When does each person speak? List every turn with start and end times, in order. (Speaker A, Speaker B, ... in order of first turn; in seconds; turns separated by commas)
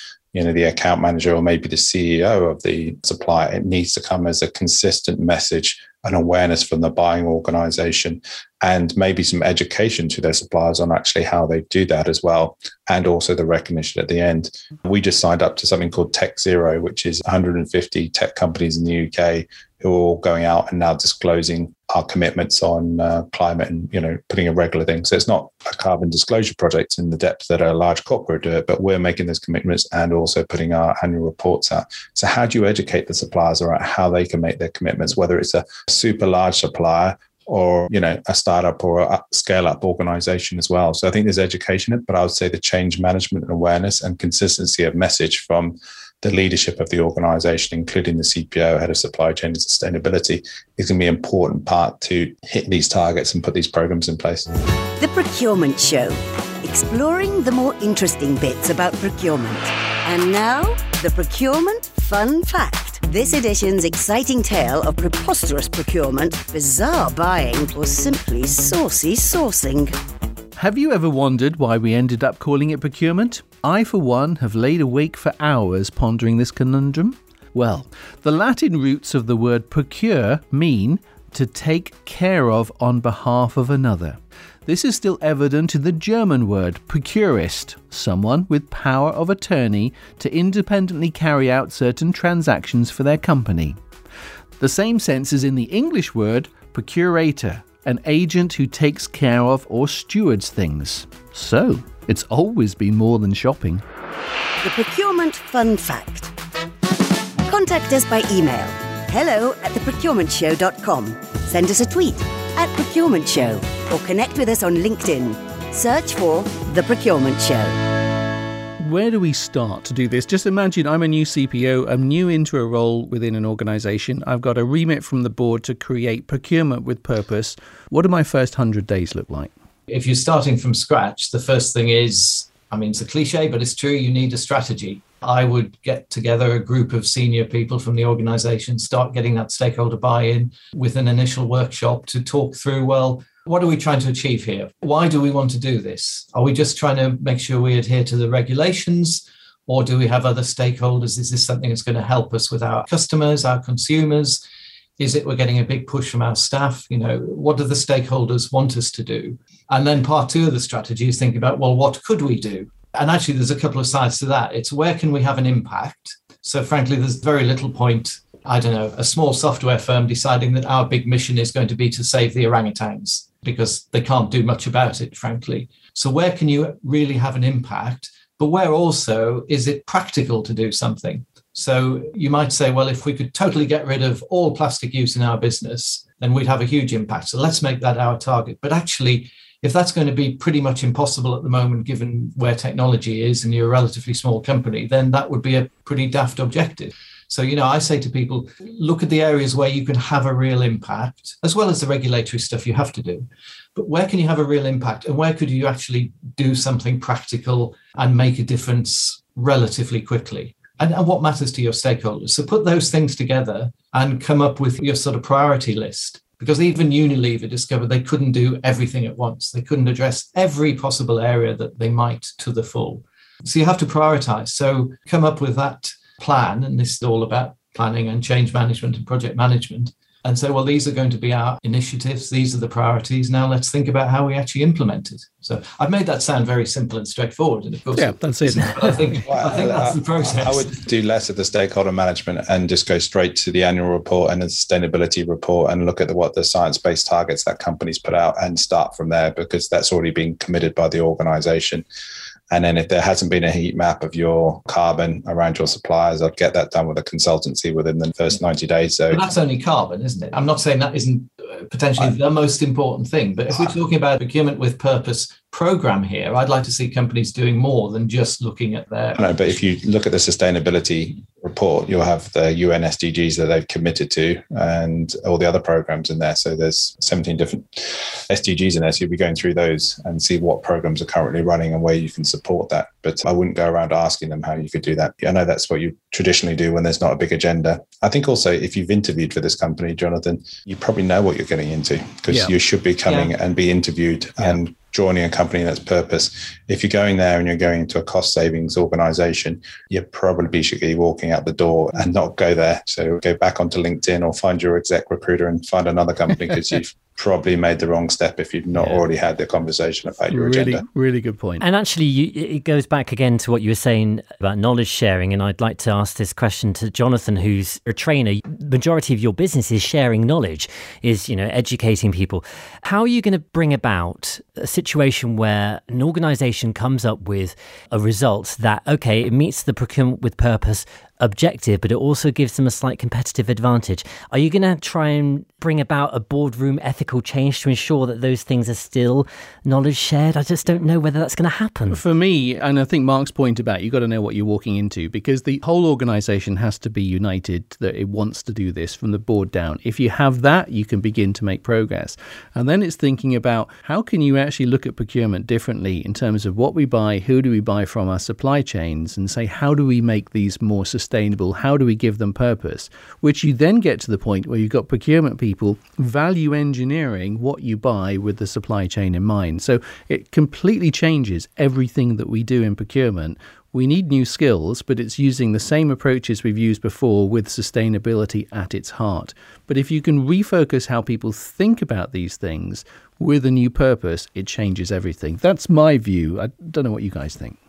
Speaker A: 0.3-54.5, Speaker B: 55.0-70.0, Speaker C: 70.5-93.8, Speaker C: 94.6-103.8, Speaker B: 104.6-106.3, Speaker B: 107.5-117.8, Speaker C: 118.8-129.5, Speaker D: 129.9-154.4, Speaker D: 155.0-240.8, Speaker C: 237.9-239.2, Speaker A: 239.3-251.8, Speaker A: 252.5-259.3, Speaker D: 259.1-269.2, Speaker A: 269.1-310.8, Speaker D: 293.1-293.3, Speaker C: 310.3-311.6, Speaker E: 311.6-342.0, Speaker C: 341.9-387.6